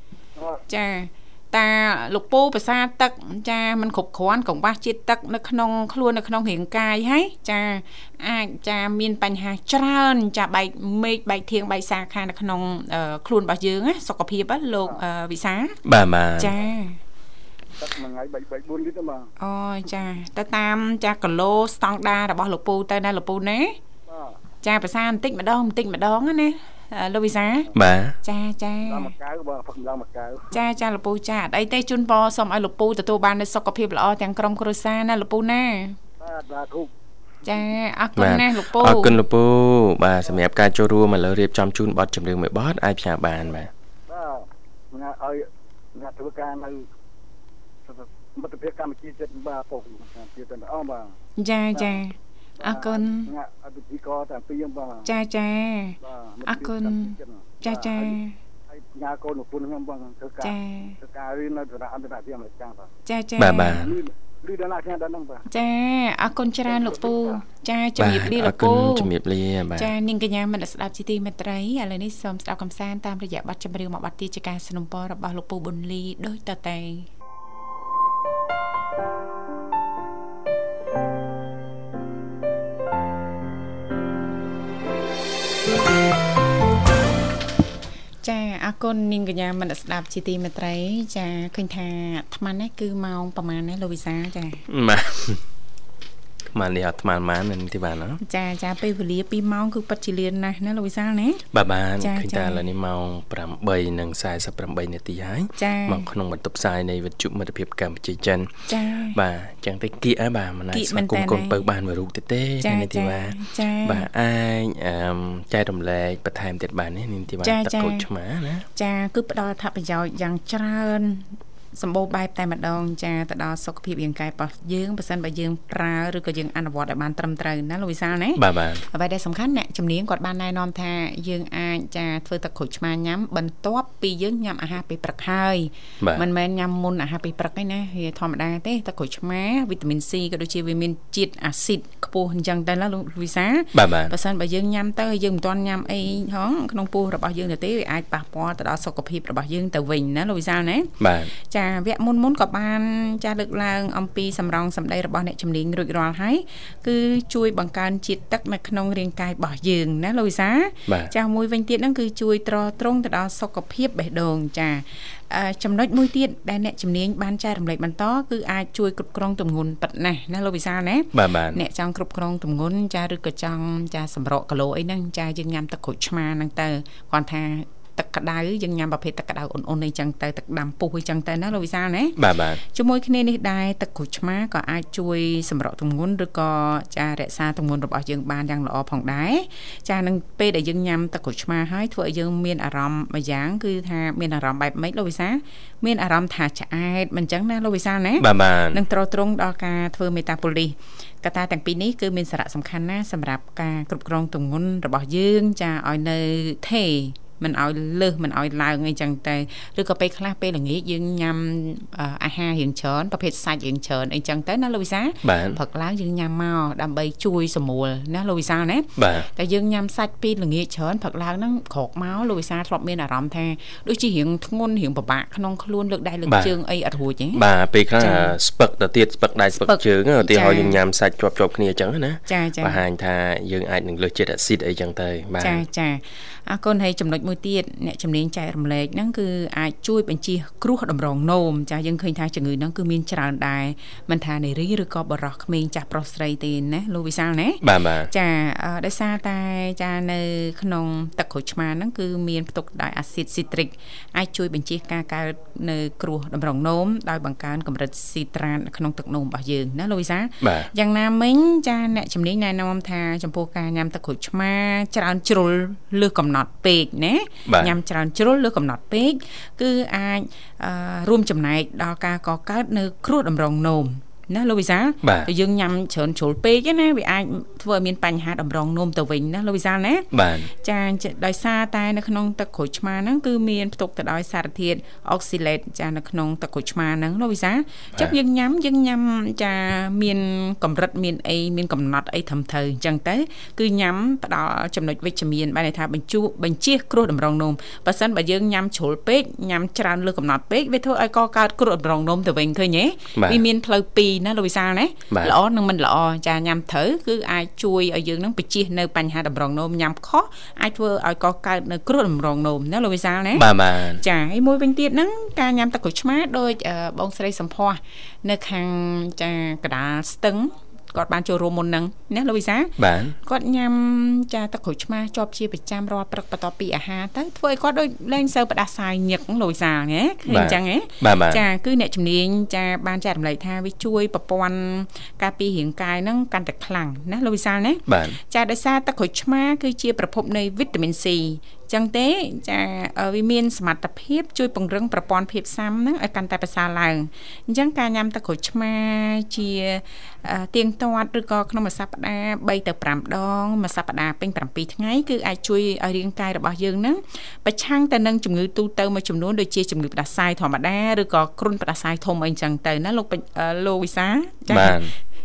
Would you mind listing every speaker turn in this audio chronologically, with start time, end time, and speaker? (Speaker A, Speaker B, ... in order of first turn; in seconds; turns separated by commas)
Speaker A: 0.4-0.6, Speaker B: 0.7-15.8, Speaker C: 15.8-16.5, Speaker B: 16.4-17.0, Speaker A: 17.8-19.3, Speaker B: 19.4-23.8, Speaker A: 24.1-24.4, Speaker B: 24.6-27.7, Speaker C: 27.7-28.2, Speaker B: 28.2-29.1, Speaker A: 28.8-30.5, Speaker B: 30.5-36.0, Speaker A: 36.2-36.9, Speaker B: 37.4-39.2, Speaker C: 38.2-43.7, Speaker A: 43.4-46.9, Speaker A: 47.9-51.1, Speaker B: 51.4-53.3, Speaker A: 52.6-55.1, Speaker B: 55.0-58.4, Speaker A: 56.0-58.2, Speaker A: 58.7-62.9, Speaker B: 60.4-61.0, Speaker B: 63.0-63.9, Speaker C: 63.4-63.9, Speaker A: 63.8-65.5, Speaker B: 65.5-69.1, Speaker A: 66.7-67.5, Speaker C: 68.0-69.9, Speaker B: 69.8-77.1, Speaker B: 88.2-94.6, Speaker C: 94.7-95.4, Speaker C: 96.5-98.2, Speaker B: 98.2-101.4, Speaker C: 101.5-108.5, Speaker B: 102.0-102.7, Speaker B: 105.6-106.1, Speaker B: 108.7-109.2, Speaker C: 109.1-118.7, Speaker B: 110.7-111.6, Speaker B: 112.6-114.1, Speaker B: 117.4-118.1, Speaker B: 118.8-150.9, Speaker C: 128.3-128.8, Speaker C: 136.0-136.3, Speaker C: 143.7-144.1, Speaker C: 151.0-151.3, Speaker B: 151.4-227.4, Speaker C: 160.9-161.1, Speaker C: 171.1-171.6, Speaker C: 182.2-182.6, Speaker C: 198.2-198.8, Speaker C: 215.2-215.6, Speaker C: 219.0-219.3, Speaker C: 226.3-226.5, Speaker C: 227.3-235.6, Speaker B: 228.0-228.3, Speaker B: 229.6-230.8, Speaker B: 232.3-232.8, Speaker B: 235.4-364.8, Speaker C: 247.6-248.1, Speaker C: 260.4-260.7, Speaker C: 267.5-267.8, Speaker C: 275.0-275.3, Speaker C: 280.1-280.5, Speaker C: 303.1-303.4, Speaker C: 305.1-305.4, Speaker C: 313.3-314.0, Speaker C: 322.8-323.1, Speaker C: 330.3-331.4, Speaker C: 337.9-338.2, Speaker C: 364.5-364.9